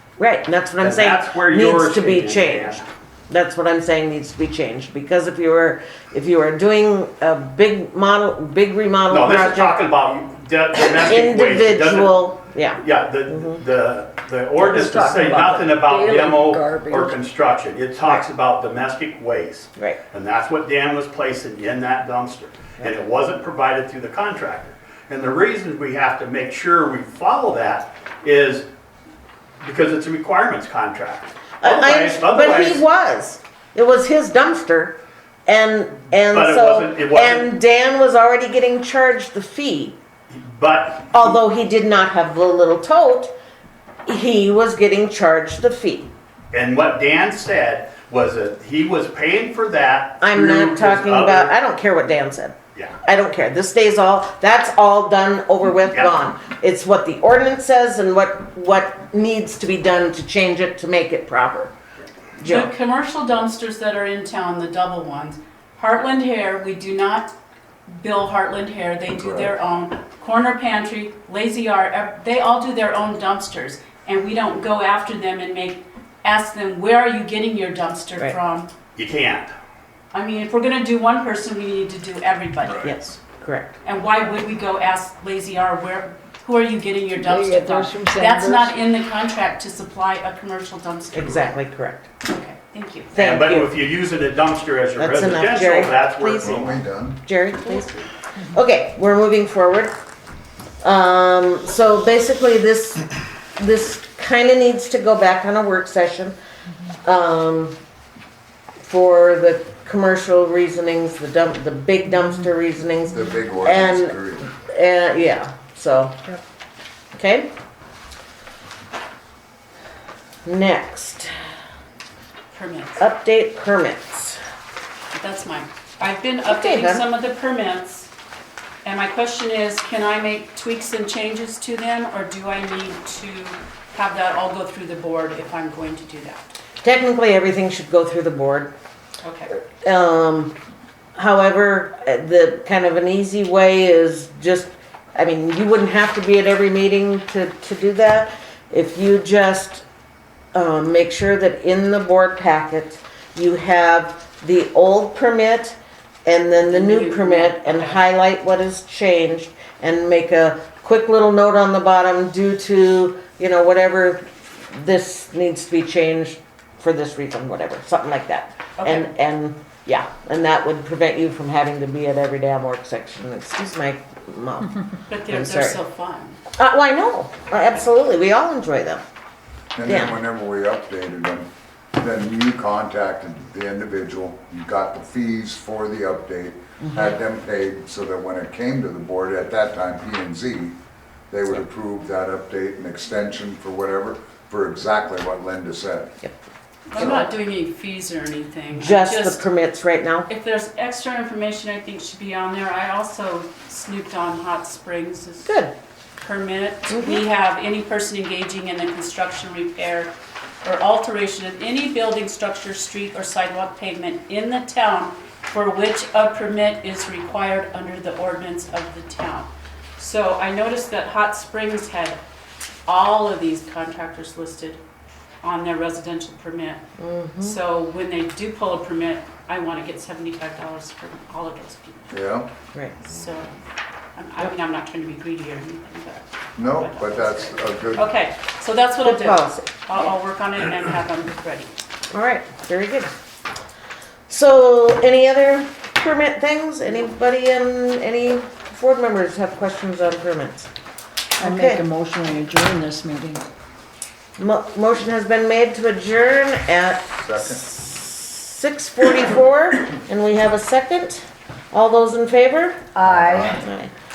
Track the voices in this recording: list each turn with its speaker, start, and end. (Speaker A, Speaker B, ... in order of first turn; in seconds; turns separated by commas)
Speaker A: 0.2-9.8, Speaker B: 0.8-2.9, Speaker B: 9.1-12.2, Speaker A: 10.8-13.6, Speaker B: 12.8-28.6, Speaker C: 14.6-17.1, Speaker B: 29.6-32.8, Speaker A: 31.6-40.0, Speaker B: 36.3-37.5, Speaker B: 40.3-41.3, Speaker A: 41.1-43.3, Speaker A: 44.0-46.1, Speaker B: 46.5-51.5, Speaker A: 50.2-61.7, Speaker B: 55.9-56.2, Speaker A: 62.4-62.7, Speaker D: 62.4-67.3, Speaker D: 67.9-78.7, Speaker E: 69.1-69.5, Speaker B: 79.0-79.5, Speaker D: 80.1-83.0, Speaker A: 82.8-83.8, Speaker D: 83.8-91.5, Speaker C: 87.2-88.8, Speaker A: 91.1-92.1, Speaker D: 92.2-93.1, Speaker A: 93.1-93.7, Speaker B: 93.2-96.8, Speaker A: 95.0-97.9, Speaker E: 96.4-97.2, Speaker D: 97.6-98.1, Speaker A: 98.4-99.9, Speaker A: 100.8-106.3, Speaker A: 107.0-107.8, Speaker A: 108.8-116.2, Speaker E: 113.1-114.5, Speaker A: 117.1-117.5, Speaker A: 120.4-121.3, Speaker D: 122.5-123.0, Speaker A: 123.0-124.4, Speaker D: 125.1-128.1, Speaker A: 126.5-127.0, Speaker D: 128.8-136.5, Speaker A: 136.8-138.7, Speaker D: 139.2-139.5, Speaker A: 139.8-140.5, Speaker A: 141.2-149.8, Speaker A: 150.5-175.8, Speaker D: 156.7-158.0, Speaker D: 168.8-169.1, Speaker D: 175.1-176.4, Speaker A: 176.5-179.0, Speaker E: 179.8-190.7, Speaker A: 179.8-180.1, Speaker E: 191.3-196.1, Speaker D: 196.9-199.4, Speaker A: 196.9-197.3, Speaker A: 198.7-200.3, Speaker D: 200.3-205.6, Speaker A: 205.4-205.7, Speaker D: 206.2-210.1, Speaker A: 206.9-207.2, Speaker D: 210.6-222.2, Speaker D: 222.9-224.8, Speaker D: 225.4-226.8, Speaker A: 227.0-227.6, Speaker D: 227.4-232.1, Speaker E: 232.1-232.5, Speaker D: 233.0-233.6, Speaker D: 234.1-241.7, Speaker E: 236.6-238.1, Speaker A: 239.0-240.1, Speaker A: 242.1-243.1, Speaker A: 244.3-250.7, Speaker C: 251.4-253.4, Speaker A: 251.4-251.8, Speaker A: 254.4-262.8, Speaker E: 257.2-257.6, Speaker C: 262.9-263.6, Speaker E: 263.0-263.6, Speaker A: 263.5-263.9